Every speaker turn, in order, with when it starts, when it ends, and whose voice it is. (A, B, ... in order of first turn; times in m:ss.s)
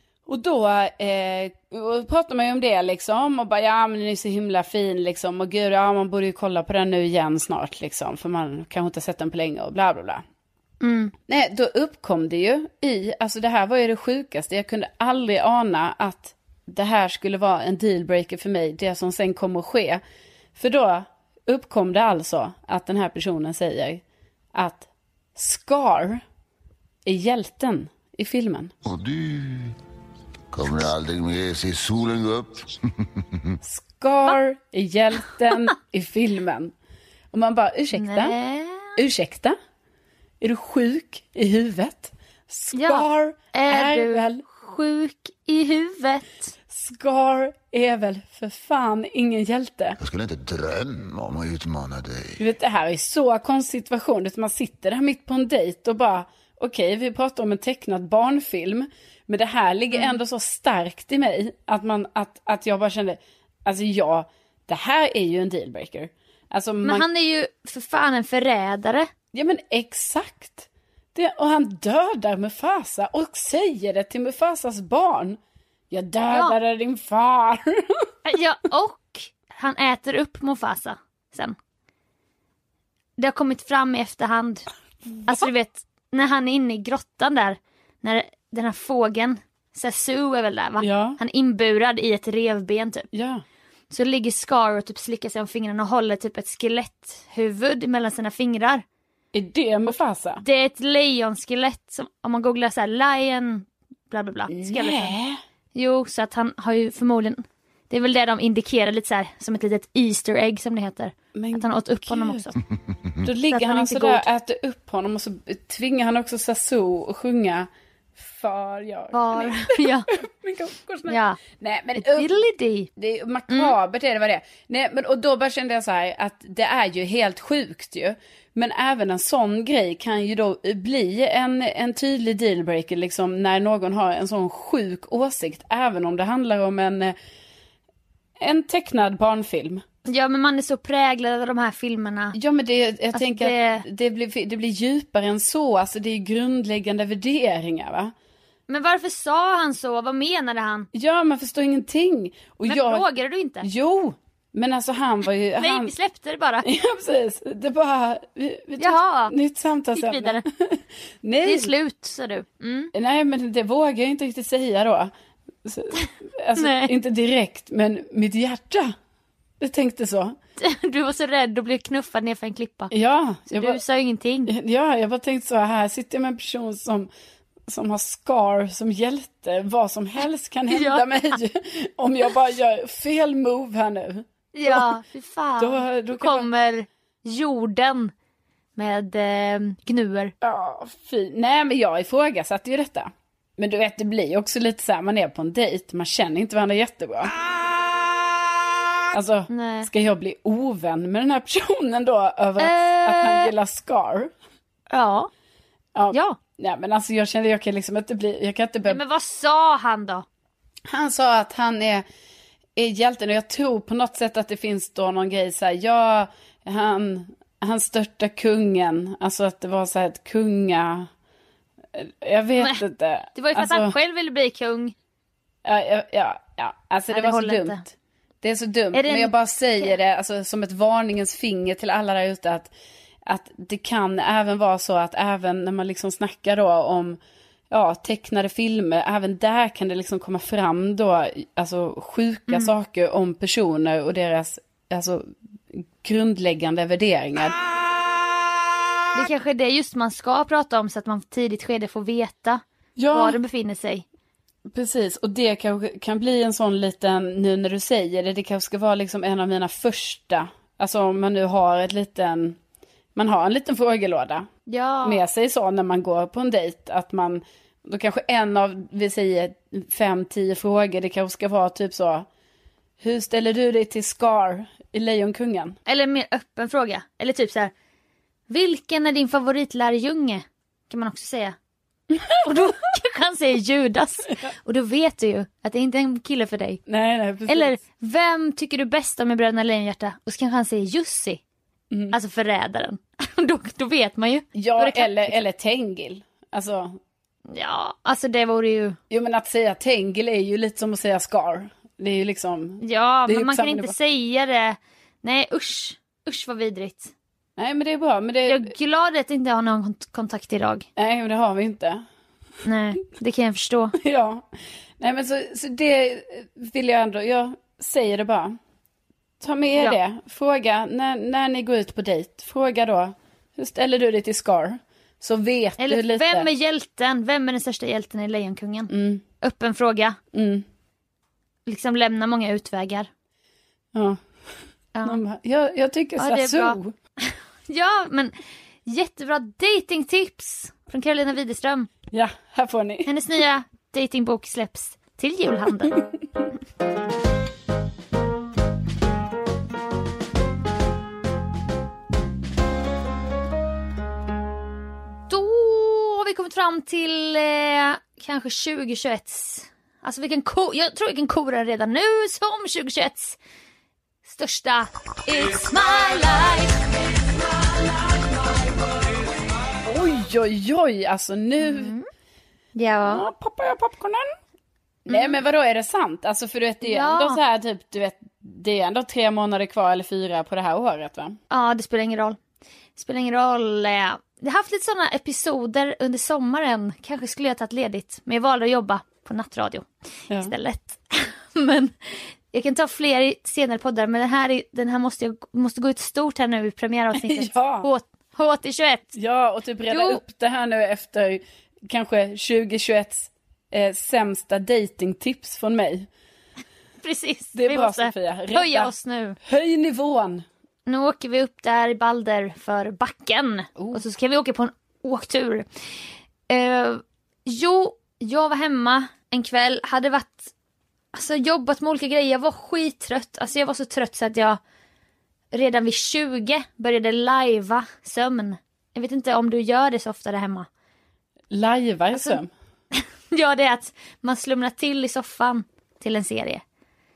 0:00.3-0:10.2 A
0:10.8-0:11.1 B
0:11.3-0:20.0 A
0:20.6-0:24.0 A
0:24.5-0:26.2 A
0:27.0-0:28.7 A
0:28.8-0:29.8 C
0:30.5-0:33.6 C
0:33.6-0:36.7 A
0:37.3-0:38.3 A
0:37.9-0:39.0 B
0:39.0-0:39.6 A
0:40.4-0:44.4 A
0:42.7-0:46.5 B
0:46.7-0:50.0 A
0:50.0-0:52.4 C
0:52.4-1:07.0 A
0:59.9-1:00.2 B
1:06.8-1:09.1 B
1:09.3-1:15.4 A
1:15.9-1:18.1 A
1:16.3-1:16.6 B
1:18.2-1:21.6 B
1:23.2-1:24.7 B
1:25.2-1:33.1 B
1:30.8-1:31.2 A
1:33.1-1:33.4 A
1:33.9-1:38.8 B
1:39.3-1:40.4 A
1:40.4-1:45.1 B
1:44.5-1:45.4 A
1:45.7-1:52.6 B
1:51.4-1:52.4 A
1:52.9-1:53.3 C
1:53.2-2:02.3 A
1:53.5-1:54.2 B
1:59.1-2:00.1 B
2:01.1-2:01.4 B
2:02.0-2:02.9 B
2:03.0-2:17.1 A
2:03.5-2:03.8 B
2:18.4-2:19.8 A
2:20.0-2:22.4 B
2:22.3-2:28.1 A
2:23.1-2:23.8 B
2:28.7-2:30.9 B
2:30.9-2:33.0 A
2:32.7-2:33.7 B
2:33.6-2:35.9 A
2:35.6-2:36.6 B
2:36.6-2:41.7 A
2:38.8-2:39.3 B
2:39.9-2:40.4 B
2:41.4-2:42.9 B
2:42.9-2:45.1 A
2:45.6-2:48.9 A
2:46.6-2:46.9 B
2:49.6-2:50.4 A
2:50.6-2:52.9 B
2:52.9-2:53.8 A
2:53.5-2:54.5 B
2:54.5-2:57.1 A
2:57.7-3:05.0 A
3:00.7-3:01.4 B
3:04.5-3:08.1 B
3:05.6-3:06.4 A
3:08.8-3:10.3 B
3:10.4-3:17.3 A
3:19.1-3:24.3 A
3:19.5-3:19.9 B
3:22.6-3:23.5 B
3:24.9-3:25.3 B
3:25.9-3:29.0 A
3:26.1-3:26.4 B
3:28.8-3:30.2 B
3:30.9-3:32.0 A
3:32.8-3:41.1 A
3:41.9-3:43.9 A
3:43.4-3:44.9 B
3:45.6-3:47.9 A
3:47.1-3:47.8 B
3:48.4-3:52.7 A
3:48.9-3:49.9 B
3:53.2-3:57.2 A
3:57.7-4:07.6 A
4:09.1-4:14.0 B
4:13.0-4:13.4 A
4:14.7-4:22.6 A
4:23.2-4:24.5 A
4:24.7-4:25.2 B
4:25.0-4:32.3 A
4:33.0-4:35.8 A
4:35.9-4:37.7 B
4:38.5-4:41.6 B
4:42.1-4:42.7 A
4:42.4-4:46.8 B
4:46.9-4:47.7 A
4:47.5-4:51.4 B
4:52.1-4:55.4 B
4:54.6-4:57.0 A
4:57.5-4:59.0 B
4:59.1-5:03.9 A
5:02.8-5:07.1 B
5:07.6-5:08.7 A
5:08.5-5:10.9 B
5:11.0-5:12.0 A
5:12.6-5:14.0 B
5:14.0-5:14.5 A
5:15.0-5:18.6 A
5:19.4-5:26.5 A
5:25.8-5:28.9 B
5:28.9-5:29.2 A
5:29.4-5:30.2 B
5:30.3-5:30.6 A
5:31.6-5:33.1 B
5:33.9-5:34.2 A
5:35.0-5:36.9 A
5:36.2-5:38.3 B
5:38.8-5:41.9 B
5:42.1-5:43.1 A
5:43.1-5:45.9 B
5:55.3-6:03.4 B
6:04.2-6:06.8 B
6:09.8-6:11.9 A
6:11.6-6:12.1 B
6:12.8-6:13.3 B
6:13.0-6:14.3 A
6:15.0-6:21.4 A
6:15.1-6:15.4 B
6:16.8-6:17.4 B
6:21.5-6:22.4 B
6:23.0-6:39.1 B
6:37.2-6:37.9 A
6:39.2-6:46.1 A
6:39.9-6:40.2 B
6:47.0-6:49.4 B
6:47.5-6:48.9 A
6:49.4-6:50.4 A
6:50.8-6:55.6 B
6:56.5-7:00.5 B
7:01.1-7:04.6 B
7:05.5-7:10.7 B
7:11.5-7:12.5 A
7:12.1-7:12.4 B
7:12.9-7:16.6 B